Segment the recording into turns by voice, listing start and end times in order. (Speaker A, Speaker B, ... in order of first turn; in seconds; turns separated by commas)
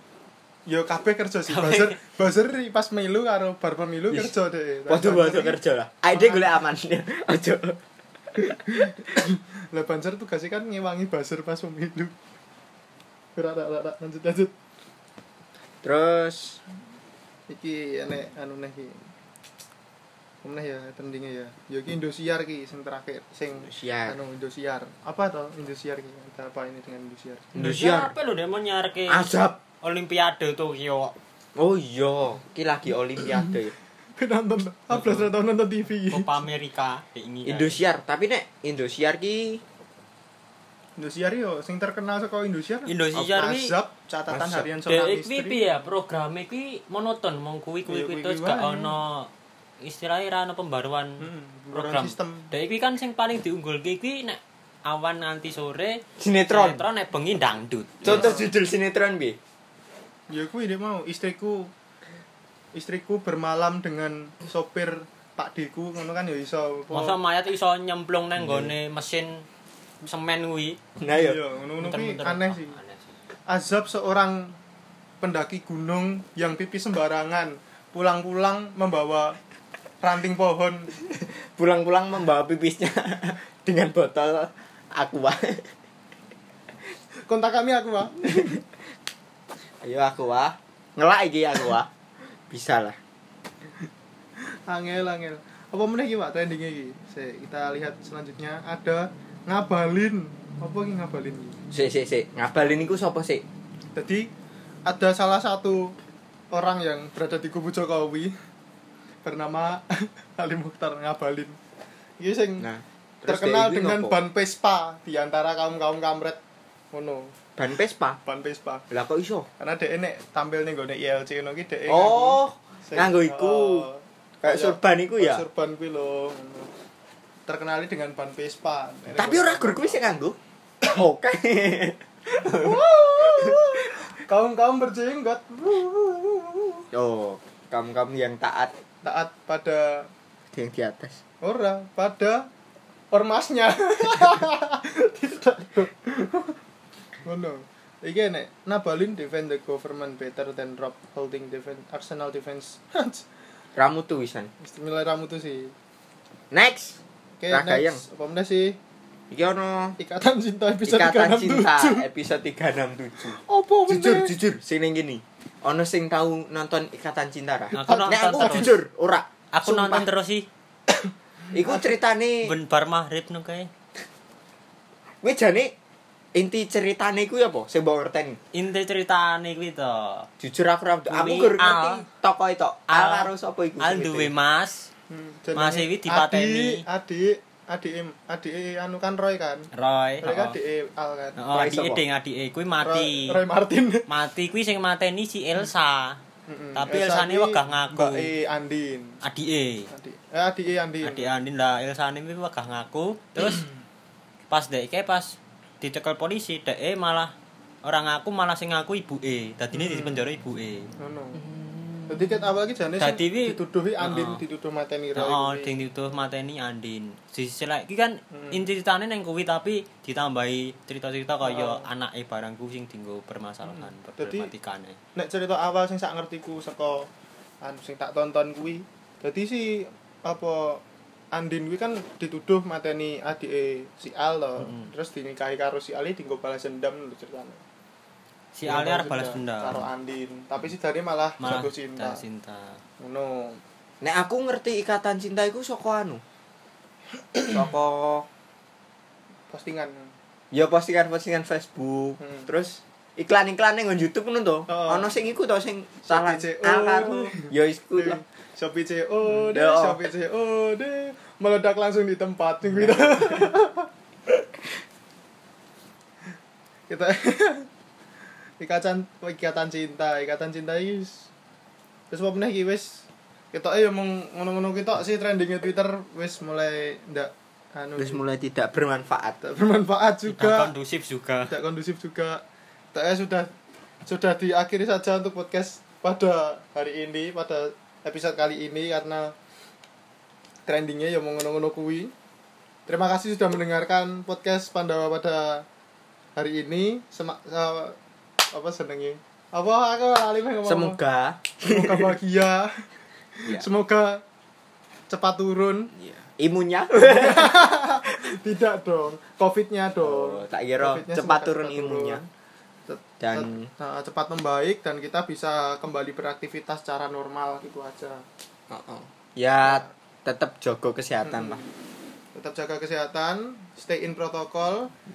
Speaker A: 0.7-5.6, Speaker B: 1.5-2.0, Speaker C: 4.9-7.8, Speaker A: 6.1-6.6, Speaker C: 8.4-8.8, Speaker A: 8.4-12.1, Speaker A: 13.3-14.5, Speaker C: 15.8-16.6, Speaker A: 17.5-19.1, Speaker A: 20.4-27.5, Speaker C: 23.6-24.2, Speaker C: 27.5-28.1, Speaker B: 27.5-29.3, Speaker C: 29.1-29.6, Speaker B: 29.8-31.1, Speaker C: 31.6-33.7, Speaker A: 34.2-36.3, Speaker B: 35.0-35.2, Speaker B: 36.1-37.8, Speaker C: 37.4-39.6, Speaker A: 41.0-45.7, Speaker B: 42.9-43.7, Speaker C: 44.3-44.7, Speaker B: 44.9-49.3, Speaker A: 47.9-48.9, Speaker B: 49.8-58.3, Speaker A: 51.2-52.5, Speaker C: 56.2-56.8, Speaker C: 58.0-59.4, Speaker A: 58.0-58.5, Speaker A: 60.3-61.7, Speaker A: 62.7-67.2, Speaker B: 66.9-69.4, Speaker C: 68.4-68.7, Speaker B: 70.0-70.8, Speaker C: 71.0-71.4, Speaker A: 71.1-72.8, Speaker B: 71.8-73.0, Speaker A: 73.5-74.5, Speaker A: 75.2-79.4, Speaker A: 80.0-80.9, Speaker C: 81.2-85.7, Speaker A: 87.3-88.6, Speaker C: 88.2-88.6, Speaker C: 89.8-91.9, Speaker C: 92.5-93.0, Speaker A: 94.7-101.6, Speaker C: 101.7-103.4, Speaker A: 103.9-104.3, Speaker A: 104.8-105.9, Speaker A: 106.5-108.3, Speaker A: 109.2-111.5, Speaker A: 112.2-112.7, Speaker C: 112.6-114.2, Speaker A: 113.2-116.4, Speaker A: 116.9-117.3, Speaker C: 117.6-118.2, Speaker A: 118.2-118.8, Speaker C: 118.9-119.5, Speaker A: 119.6-126.7, Speaker C: 121.9-123.9, Speaker C: 124.4-125.5, Speaker A: 127.5-130.1, Speaker C: 129.1-134.0, Speaker A: 132.4-136.8, Speaker C: 136.9-138.7, Speaker A: 139.0-140.1, Speaker C: 140.5-141.2, Speaker A: 141.4-142.5, Speaker A: 143.1-146.6, Speaker A: 147.2-153.2, Speaker C: 153.8-154.5, Speaker A: 154.6-155.7, Speaker C: 156.5-157.0, Speaker A: 157.4-158.8, Speaker C: 157.5-158.0, Speaker C: 159.3-159.9, Speaker A: 160.0-162.1, Speaker C: 160.8-170.1, Speaker A: 163.2-164.3, Speaker B: 167.8-168.7, Speaker A: 167.9-168.7, Speaker B: 169.5-170.4, Speaker C: 171.5-172.5, Speaker B: 172.4-173.7, Speaker C: 175.2-175.7, Speaker C: 176.3-178.4, Speaker B: 178.5-180.3, Speaker C: 180.4-184.3, Speaker B: 181.1-182.0, Speaker B: 182.9-184.9, Speaker A: 185.1-189.7, Speaker B: 185.5-186.8, Speaker B: 189.7-190.6, Speaker A: 190.2-191.4, Speaker B: 191.4-193.4, Speaker C: 191.5-192.0, Speaker A: 192.8-194.1, Speaker B: 194.1-196.2, Speaker A: 196.5-199.2, Speaker B: 196.7-198.3, Speaker B: 199.2-199.9, Speaker A: 199.9-201.3, Speaker B: 201.0-203.7, Speaker B: 204.5-207.3, Speaker B: 207.8-212.4, Speaker A: 209.7-210.2, Speaker A: 211.0-211.4, Speaker A: 212.1-215.7, Speaker B: 213.0-214.4, Speaker B: 215.1-225.0, Speaker A: 218.3-218.7, Speaker A: 221.4-221.9, Speaker A: 223.7-224.5, Speaker A: 225.1-227.1, Speaker A: 227.6-237.6, Speaker B: 234.6-234.9, Speaker B: 238.5-239.8, Speaker A: 238.6-242.2, Speaker B: 241.4-242.8, Speaker A: 243.0-243.6, Speaker C: 244.0-246.2, Speaker A: 247.3-247.6, Speaker C: 247.5-248.2, Speaker A: 249.5-250.1, Speaker C: 250.5-258.2, Speaker A: 252.2-252.5, Speaker A: 254.7-255.1, Speaker A: 256.1-264.3, Speaker C: 259.3-260.0, Speaker C: 263.0-263.2, Speaker A: 266.9-267.7, Speaker A: 268.6-271.3, Speaker A: 272.1-278.2, Speaker C: 278.0-279.4, Speaker A: 279.4-280.7, Speaker B: 280.3-281.5, Speaker A: 281.5-282.4, Speaker A: 282.9-283.5, Speaker A: 284.1-289.3, Speaker A: 290.6-292.1, Speaker A: 292.9-295.6, Speaker A: 296.4-297.9, Speaker A: 298.5-301.0, Speaker C: 300.6-302.1, Speaker A: 301.6-302.9, Speaker A: 303.4-304.2, Speaker A: 305.1-305.9, Speaker C: 306.0-307.6, Speaker A: 306.9-312.2, Speaker C: 310.0-312.2, Speaker A: 312.9-318.2, Speaker C: 313.2-313.7, Speaker C: 318.7-321.6, Speaker A: 319.6-319.9, Speaker A: 321.2-321.7, Speaker A: 322.3-324.9